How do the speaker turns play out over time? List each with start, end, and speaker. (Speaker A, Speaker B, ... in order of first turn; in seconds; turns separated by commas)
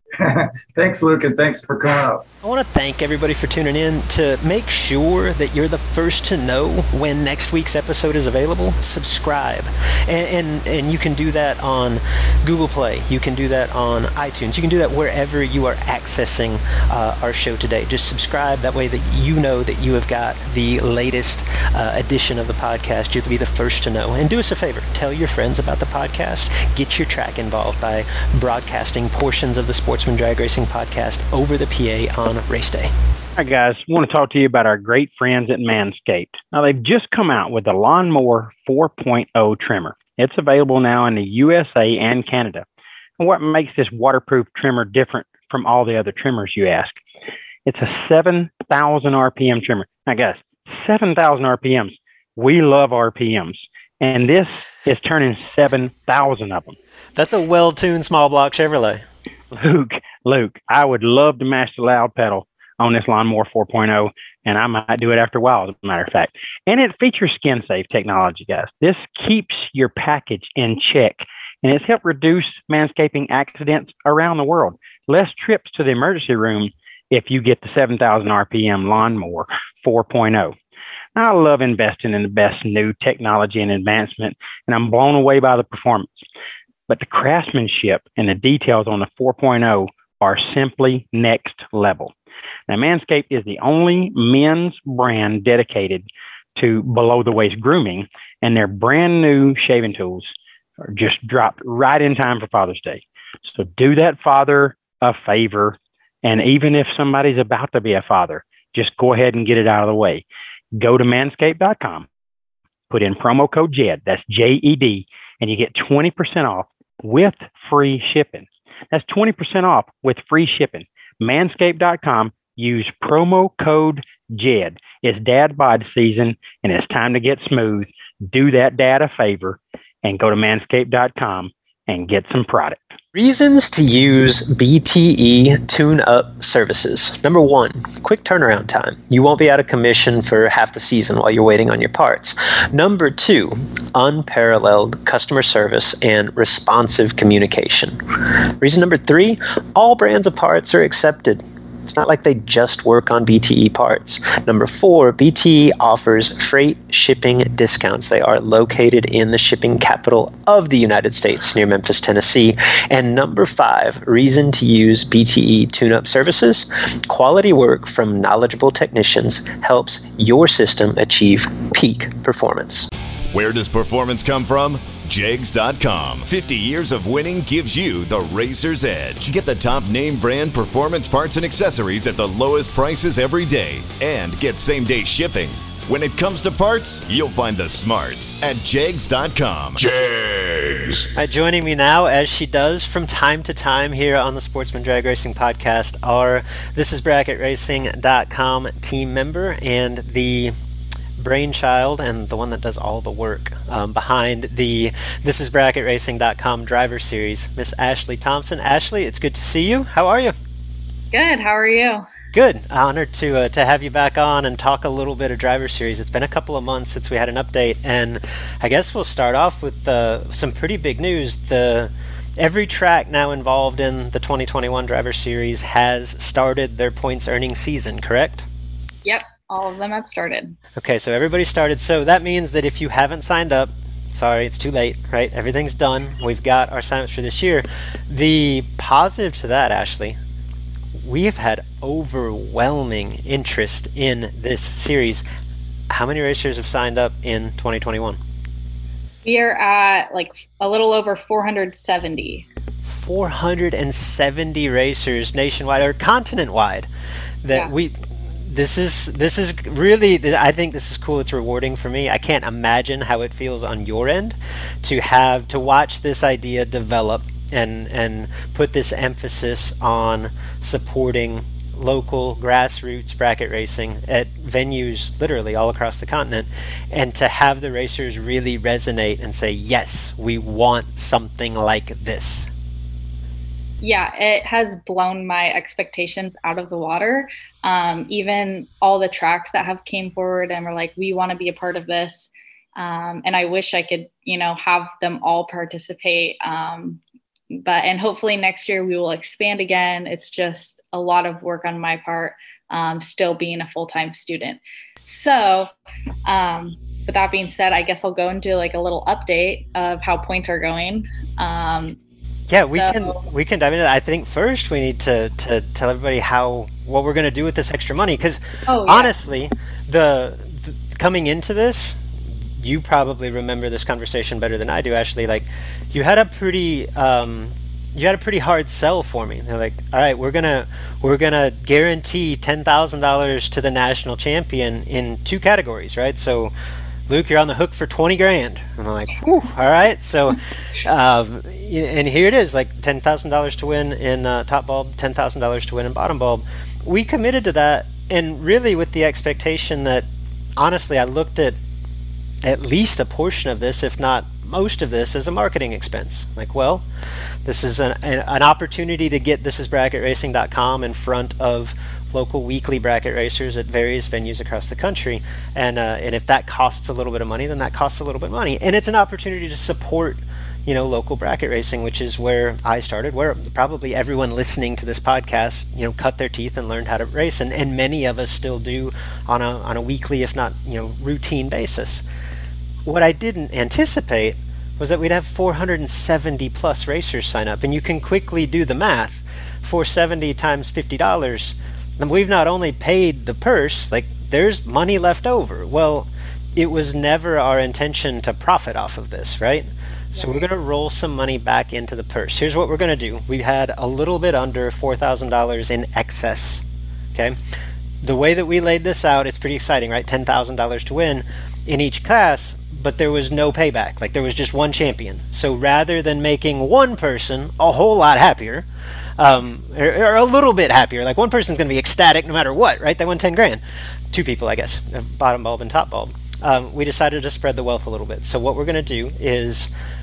Speaker A: 0.2-2.2, Speaker B: 2.4-32.9, Speaker C: 33.4-42.7, Speaker C: 43.2-47.0, Speaker C: 47.6-56.8, Speaker B: 57.2-59.0, Speaker C: 59.5-80.5, Speaker C: 81.2-86.2, Speaker C: 86.9-92.1, Speaker C: 92.7-112.1, Speaker C: 112.9-132.9, Speaker B: 133.2-148.0, Speaker B: 148.6-172.9, Speaker D: 173.3-191.0, Speaker B: 191.2-200.5, Speaker B: 201.2-210.3, Speaker E: 211.1-212.1, Speaker B: 212.3-228.4, Speaker E: 229.0-230.6, Speaker B: 230.8-240.2, Speaker B: 241.0-245.2, Speaker B: 245.9-248.2, Speaker E: 249.2-252.4, Speaker B: 252.8-256.9, Speaker B: 257.4-282.5, Speaker E: 283.8-297.0, Speaker E: 297.5-305.7, Speaker E: 306.2-312.0, Speaker B: 312.5-322.0, Speaker E: 312.7-313.2, Speaker E: 318.7-319.1, Speaker B: 322.6-336.5, Speaker B: 337.1-350.1, Speaker B: 350.6-351.6, Speaker B: 352.4-356.8, Speaker B: 357.4-382.0, Speaker B: 382.9-407.4, Speaker E: 400.1-400.4, Speaker B: 408.0-418.7, Speaker B: 419.2-429.7